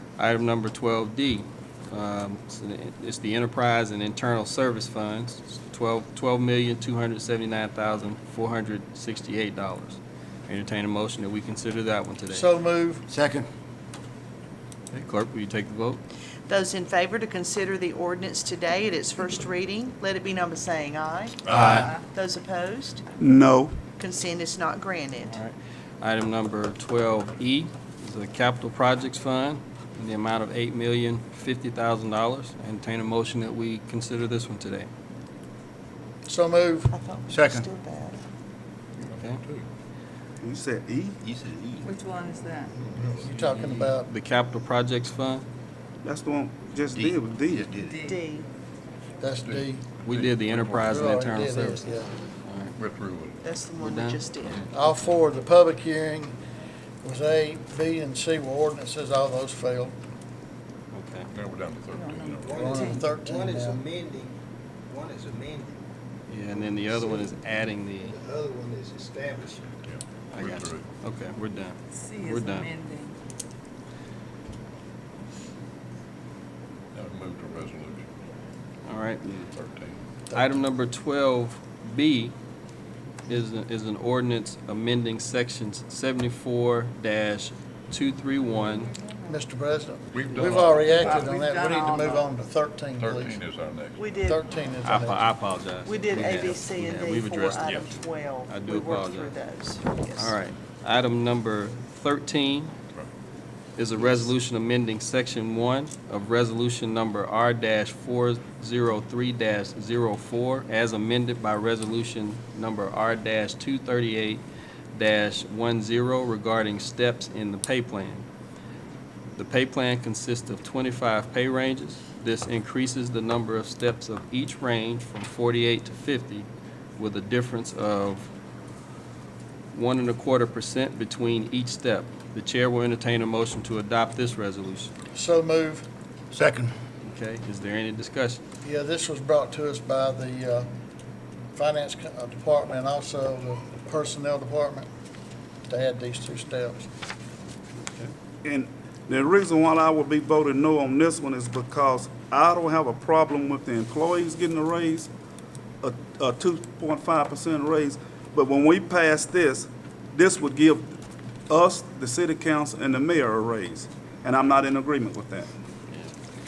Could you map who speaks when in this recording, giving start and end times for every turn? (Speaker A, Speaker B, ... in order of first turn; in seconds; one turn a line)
Speaker A: 0.2-12.5
Speaker B: 12.3-13.2
Speaker C: 13.2-13.4
Speaker A: 14.9-16.0
Speaker D: 16.5-23.0
Speaker E: 21.5-21.8
Speaker C: 21.6-21.9
Speaker F: 23.2-23.8
Speaker D: 24.0-25.4
Speaker A: 25.3-34.9
Speaker B: 36.3-36.9
Speaker D: 36.9-38.2
Speaker C: 37.3-37.6
Speaker A: 39.0-39.4
Speaker E: 39.1-39.7
Speaker F: 40.4-41.2
Speaker C: 41.2-41.8
Speaker G: 41.8-42.8
Speaker E: 42.9-43.3
Speaker B: 43.0-44.1
Speaker A: 43.6-45.5
Speaker F: 46.0-47.7
Speaker C: 47.0-47.9
Speaker G: 47.7-48.2
Speaker D: 48.0-48.5
Speaker B: 49.2-49.9
Speaker E: 49.5-51.1
Speaker A: 50.0-51.8
Speaker B: 50.9-52.2
Speaker A: 52.4-52.7
Speaker E: 52.8-53.4
Speaker D: 53.4-54.6
Speaker A: 53.8-54.2
Speaker B: 54.7-56.4
Speaker B: 57.0-60.0
Speaker A: 60.9-61.3
Speaker E: 61.3-62.7
Speaker G: 61.9-63.1
Speaker H: 62.4-65.8
Speaker B: 62.5-63.8
Speaker A: 66.3-68.2
Speaker H: 66.6-67.4
Speaker H: 68.0-69.8
Speaker E: 69.9-70.8
Speaker A: 70.3-72.7
Speaker G: 71.9-73.2
Speaker E: 76.9-78.1
Speaker A: 78.8-79.3
Speaker E: 79.4-80.0
Speaker B: 80.3-80.6
Speaker A: 80.3-82.3
Speaker A: 83.3-88.9
Speaker G: 88.6-89.4
Speaker B: 89.3-93.4
Speaker E: 90.1-91.4
Speaker G: 90.8-92.3
Speaker E: 93.0-94.1
Speaker D: 94.0-94.4
Speaker B: 94.2-95.2
Speaker A: 94.8-97.8
Speaker D: 95.8-100.3
Speaker A: 98.5-99.3
Speaker A: 100.2-102.7
Speaker A: 103.8-114.4
Speaker A: 114.9-118.2
Speaker A: 119.3-126.5
Speaker A: 127.0-128.3
Speaker A: 129.7-134.9
Speaker B: 135.1-135.9
Speaker A: 137.0-138.4
Speaker B: 138.6-140.7
Speaker B: 141.6-144.9
Speaker B: 145.7-146.9
Speaker F: 148.4-155.1
Speaker F: 155.8-160.8
Speaker F: 161.5-165.4
Speaker C: 165.1-165.4